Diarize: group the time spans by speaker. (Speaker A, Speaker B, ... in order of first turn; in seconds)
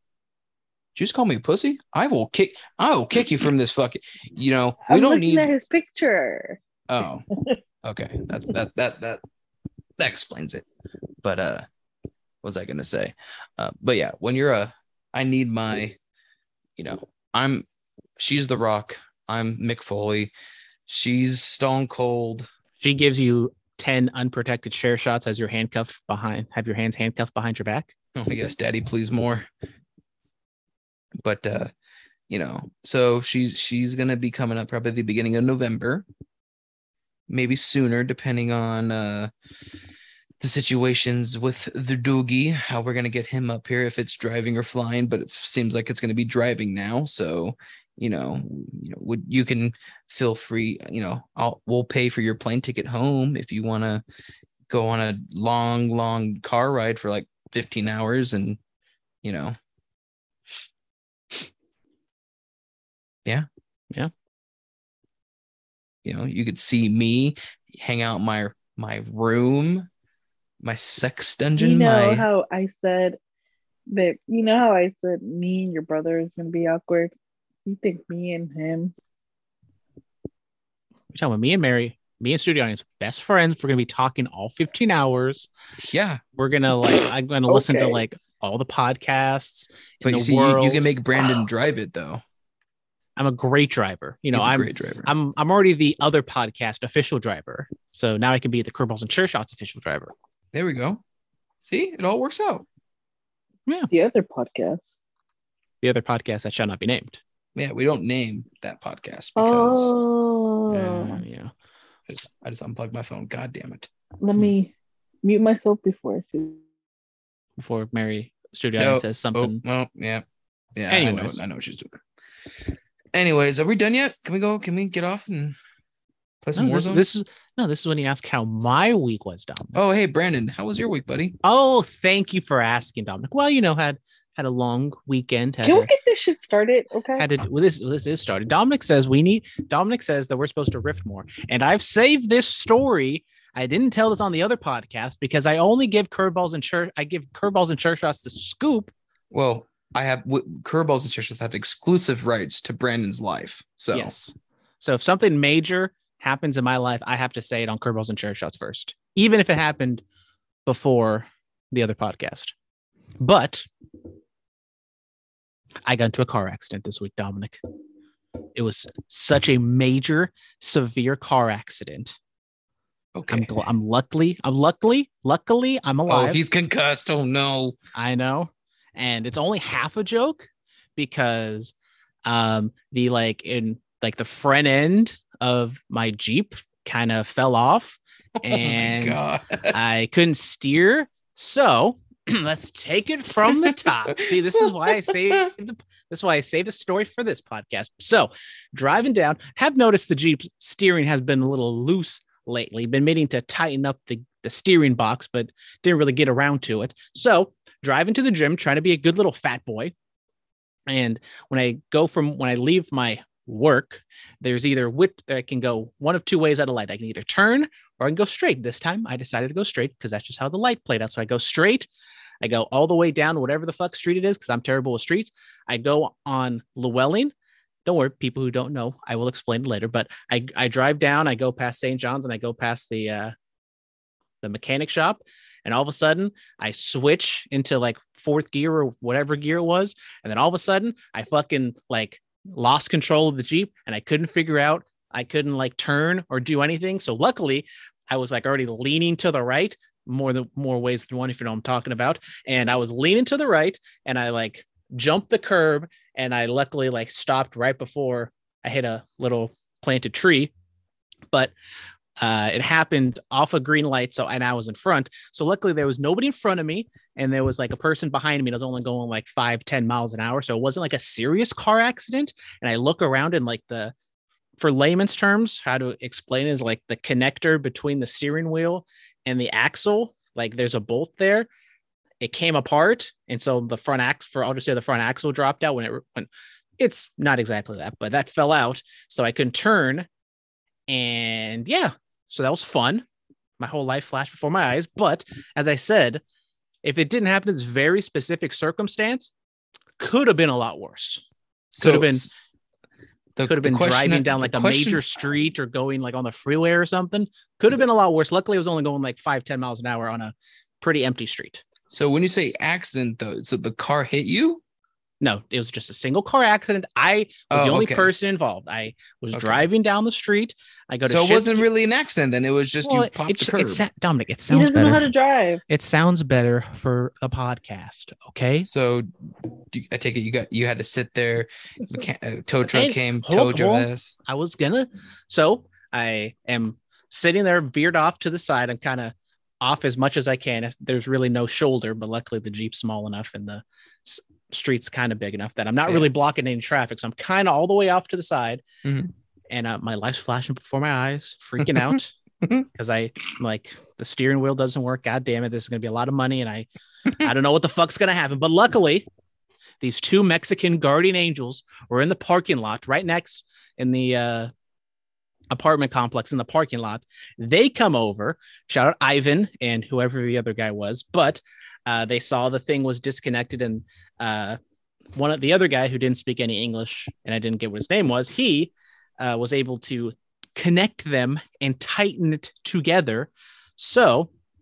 Speaker A: 0.9-5.5, 6.9-7.3, 7.8-9.2, 10.0-10.7, 11.2-11.6, 12.4-16.0, 16.8-17.6, 18.2-20.3, 20.9-22.5, 28.1-29.5, 31.2-31.7, 32.3-36.0, 37.3-39.3, 40.4-54.0, 54.7-58.6, 59.2-59.5, 66.0-69.9, 70.6-72.3, 85.8-86.2, 90.0-92.2, 94.3-95.1, 100.5-101.0, 101.6-102.7, 107.5-109.9, 112.1-114.5, 118.8-120.2, 120.8-122.0, 123.1-125.6, 126.4-127.1, 129.7-131.3, 149.3-154.1, 173.1-173.6, 176.1-177.8, 188.4-189.8, 193.6-195.5, 301.7-302.3, 303.4-305.0, 311.9-314.6, 317.5-318.1, 319.3-319.6, 321.1-323.8, 328.6-329.1, 329.7-334.1, 348.8-349.1, 351.6-352.6
Speaker B: 4.8-6.6, 71.6-73.2, 73.9-77.1, 77.7-78.9, 87.5-88.0, 103.9-104.9, 109.3-111.2, 114.2-114.7, 115.2-116.6, 135.6-137.3, 324.5-325.6
Speaker C: 22.8-27.9, 81.1-85.5, 86.4-90.9, 93.2-100.1, 105.8-107.2, 110.7-111.5, 117.6-119.6, 120.9-121.4, 126.5-129.8, 131.4-135.9, 137.2-148.9, 153.9-160.0, 160.7-162.5, 163.2-163.7, 165.8-167.6, 168.5-172.2, 173.3-176.4, 177.9-181.7, 182.2-209.9, 210.9-221.9, 222.4-227.3, 227.8-233.3, 234.4-260.5, 262.2-273.9, 274.6-281.5, 282.2-290.1, 290.9-293.0, 293.6-296.2, 296.8-299.3, 300.0-301.2, 301.8-302.3, 303.4-311.6, 315.2-321.7, 322.8-325.1, 325.7-328.7, 332.7-348.6, 349.5-352.1, 352.7-356.7, 357.2-359.1, 359.8-364.5, 365.5-374.6, 375.1-384.3